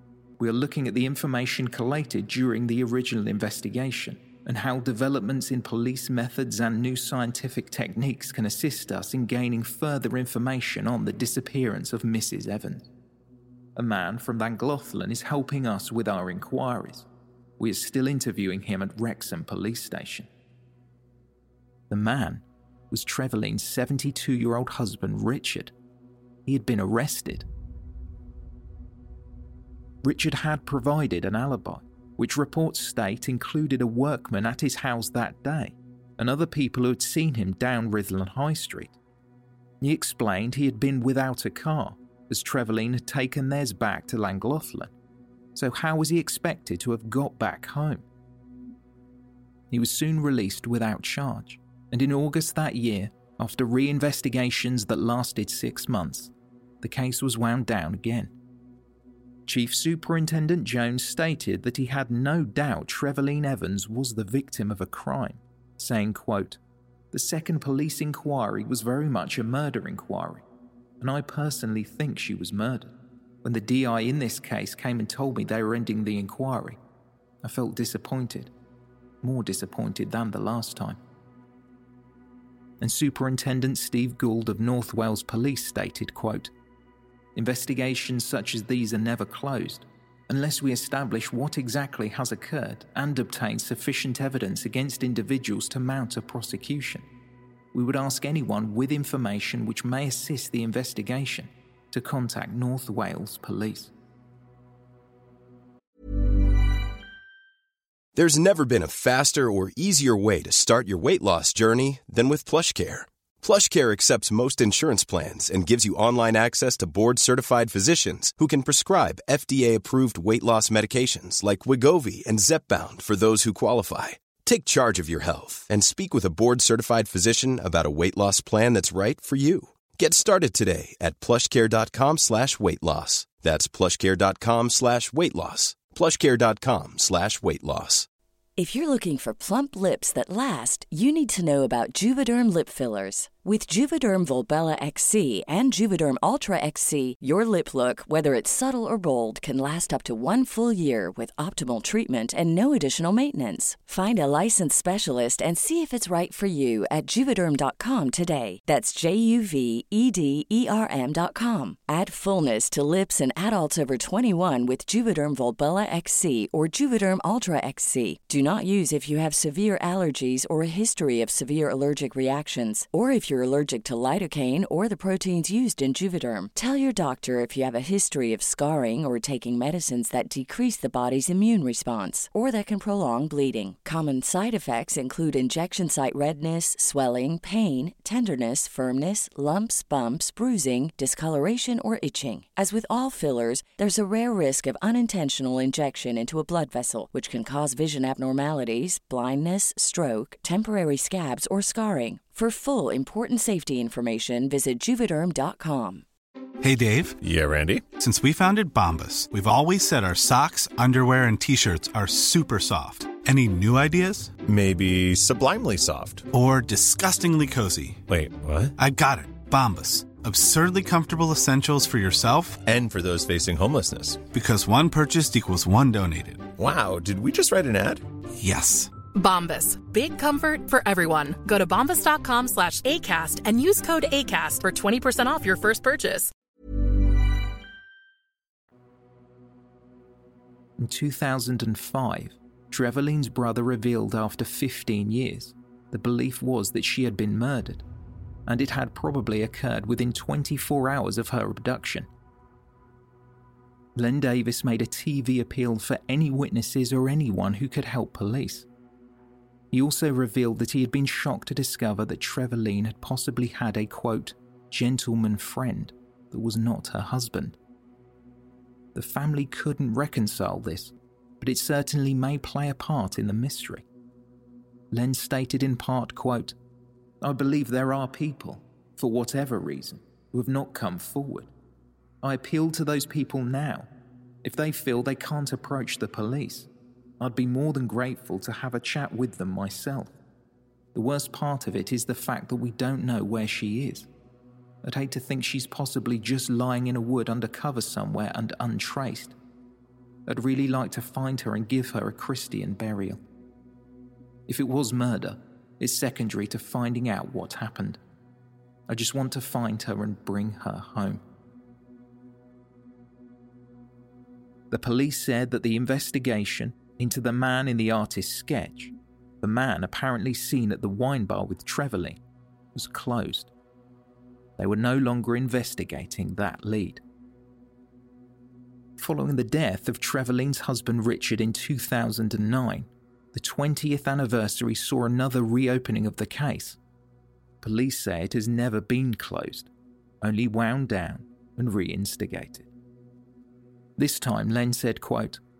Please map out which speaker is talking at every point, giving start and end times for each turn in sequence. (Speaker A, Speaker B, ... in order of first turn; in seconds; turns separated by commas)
Speaker A: 0.4-12.9, Speaker A: 13.8-17.1, Speaker A: 17.6-20.3, Speaker A: 21.9-25.7, Speaker A: 26.4-27.4, Speaker A: 30.0-38.9, Speaker A: 39.8-44.9, Speaker A: 45.5-48.0, Speaker A: 49.7-58.3, Speaker A: 59.5-66.6, Speaker A: 67.1-70.4, Speaker A: 71.0-72.9, Speaker A: 73.4-76.8, Speaker A: 77.4-78.5, Speaker A: 79.2-81.0, Speaker A: 82.8-86.5, Speaker A: 87.3-97.0, Speaker A: 97.7-103.9, Speaker B: 108.1-138.1, Speaker C: 138.6-206.0, Speaker D: 206.6-207.2, Speaker E: 207.2-207.8, Speaker D: 208.0-214.3, Speaker E: 214.4-216.3, Speaker D: 216.3-218.0, Speaker E: 218.1-218.7, Speaker D: 218.8-222.6, Speaker E: 222.6-224.3, Speaker D: 224.3-226.5, Speaker E: 226.6-228.0, Speaker D: 228.4-228.9, Speaker F: 229.1-236.3, Speaker A: 240.8-247.8, Speaker A: 248.5-252.1, Speaker A: 253.9-258.6, Speaker A: 259.7-267.6, Speaker A: 268.9-273.8, Speaker A: 274.9-276.6, Speaker A: 277.2-281.5, Speaker A: 282.2-283.9, Speaker A: 284.4-286.7, Speaker A: 287.2-290.1, Speaker A: 290.9-294.1, Speaker A: 294.8-299.4, Speaker A: 300.2-303.2, Speaker A: 304.5-308.0, Speaker A: 308.9-311.2, Speaker A: 314.7-322.2, Speaker A: 322.7-323.5, Speaker A: 324.6-327.0, Speaker A: 329.0-336.8, Speaker A: 337.6-339.7, Speaker A: 340.2-342.7, Speaker A: 344.0-345.4